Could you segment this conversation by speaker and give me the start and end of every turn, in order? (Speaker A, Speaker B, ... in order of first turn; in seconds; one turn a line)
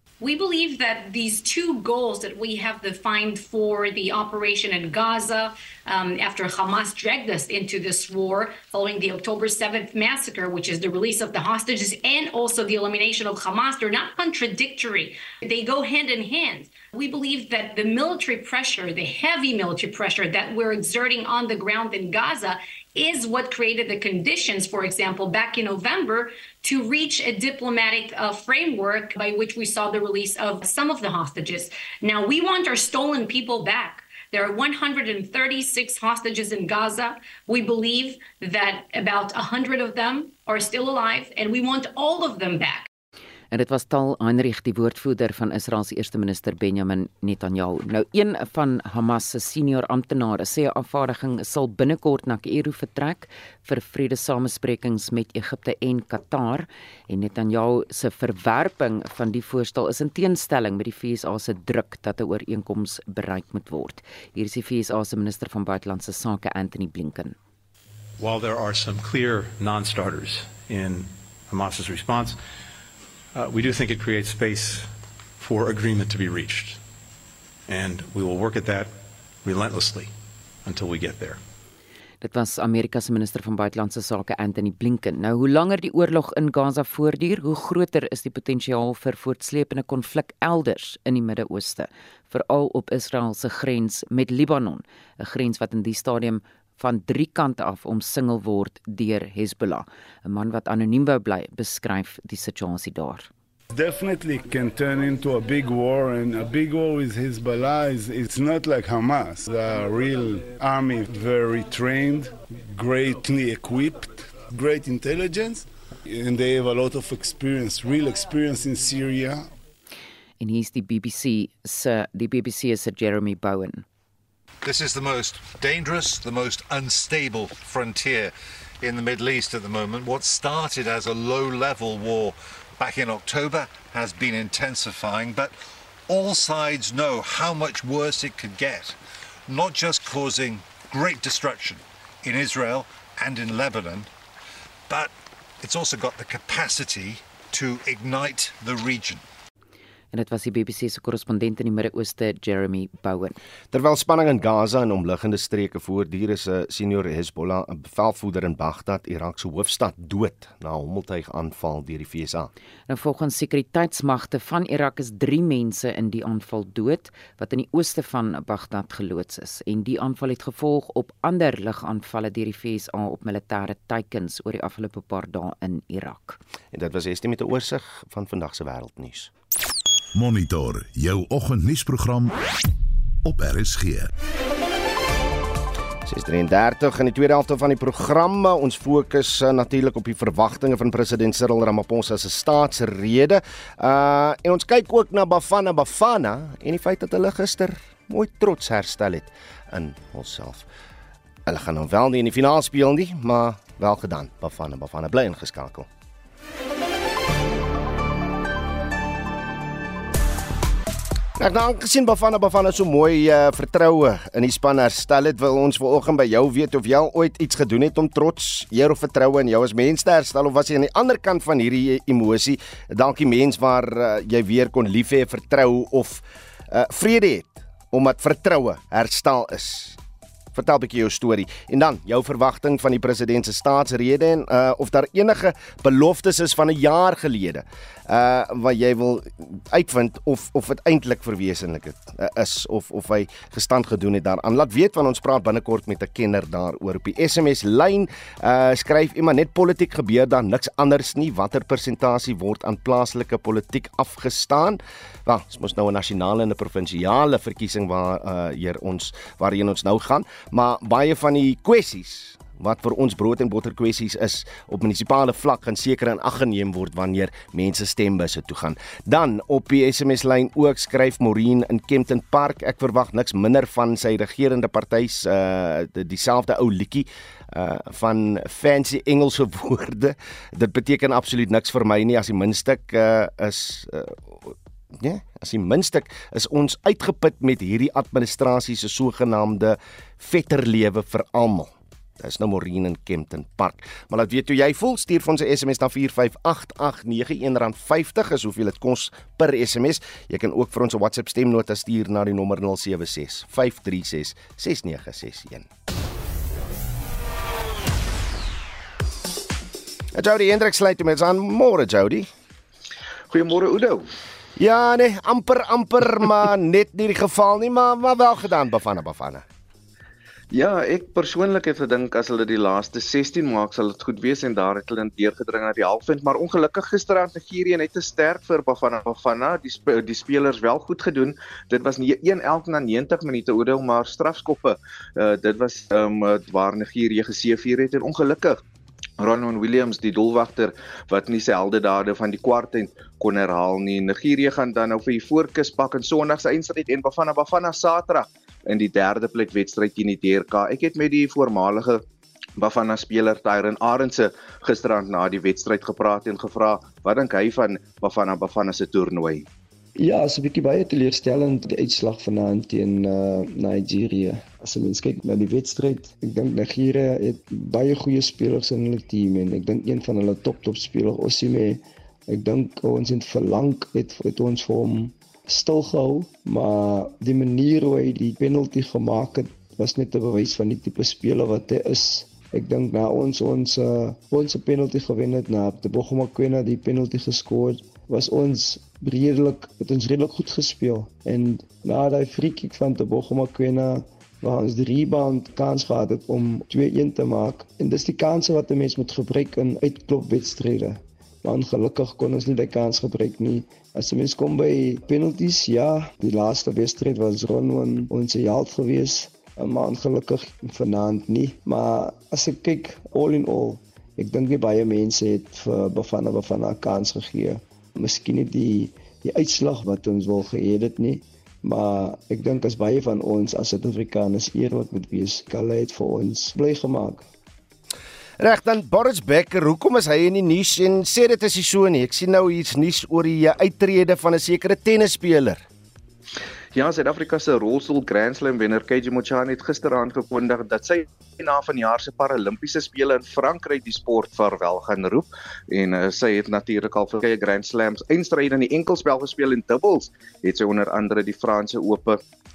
Speaker A: 0.2-42.9
Speaker B: 43.5-67.4
Speaker C: 68.2-72.4
Speaker C: 73.3-76.8
Speaker C: 77.7-80.1
Speaker C: 80.6-81.4
Speaker B: 82.2-103.3
Speaker D: 103.7-119.5
Speaker B: 120.4-123.8
Speaker E: 124.6-135.6
Speaker E: 136.1-144.1
Speaker E: 144.9-149.2
Speaker B: 150.1-153.3
Speaker F: 153.7-162.5
Speaker B: 162.9-176.4
Speaker F: 176.7-179.3
Speaker G: 180.1-182.4
Speaker G: 183.2-184.1
Speaker F: 186.1-200.7
Speaker F: 201.5-205.9
Speaker F: 211.4-230.0
Speaker F: 230.5-305.7
Speaker F: 310.1-312.3
Speaker H: 313.3-314.1
Speaker F: 314.6-319.4
Speaker H: 320.5-338.6
Speaker H: 339.2-352.0
Speaker H: 352.6-359.5
Speaker I: 360.0-427.3
Speaker F: 428.4-435.6
Speaker H: 436.7-452.2